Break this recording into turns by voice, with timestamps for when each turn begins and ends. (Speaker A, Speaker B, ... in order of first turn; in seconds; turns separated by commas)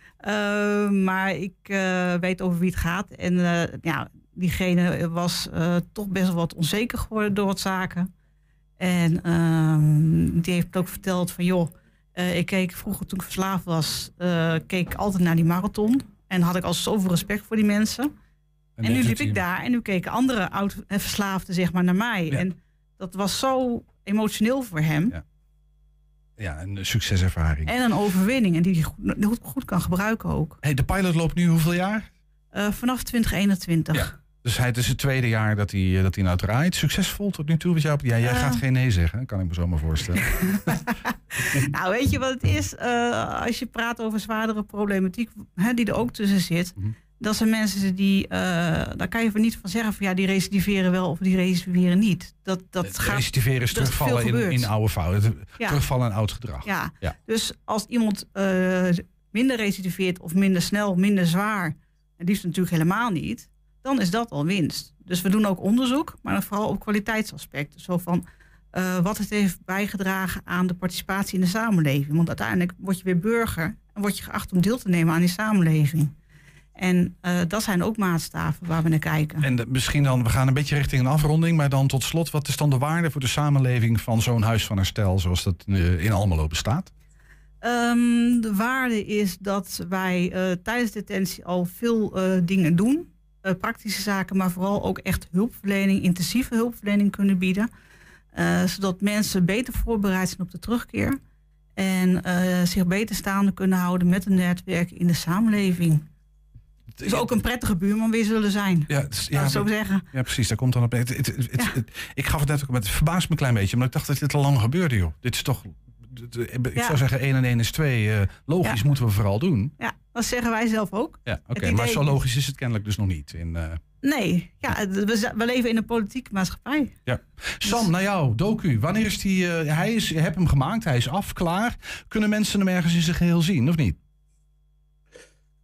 Speaker A: 0.2-8.1, Speaker A: 8.8-18.1, Speaker B: 18.8-19.4, Speaker A: 18.8-25.2, Speaker B: 26.4-27.7, Speaker A: 27.7-30.6, Speaker B: 30.6-32.1, Speaker A: 32.5-34.1, Speaker B: 33.9-40.6, Speaker A: 38.2-38.6, Speaker A: 40.4-54.7, Speaker B: 52.8-57.2, Speaker A: 56.6-76.1, Speaker A: 76.8-79.5, Speaker B: 79.4-86.9, Speaker A: 87.6-97.7, Speaker A: 98.3-101.2, Speaker A: 101.8-106.0, Speaker B: 107.0-107.3, Speaker A: 107.0-110.0, Speaker B: 108.9-119.7, Speaker A: 116.8-117.0, Speaker A: 119.8-122.2, Speaker B: 121.3-123.8, Speaker A: 124.0-127.0, Speaker B: 127.1-134.0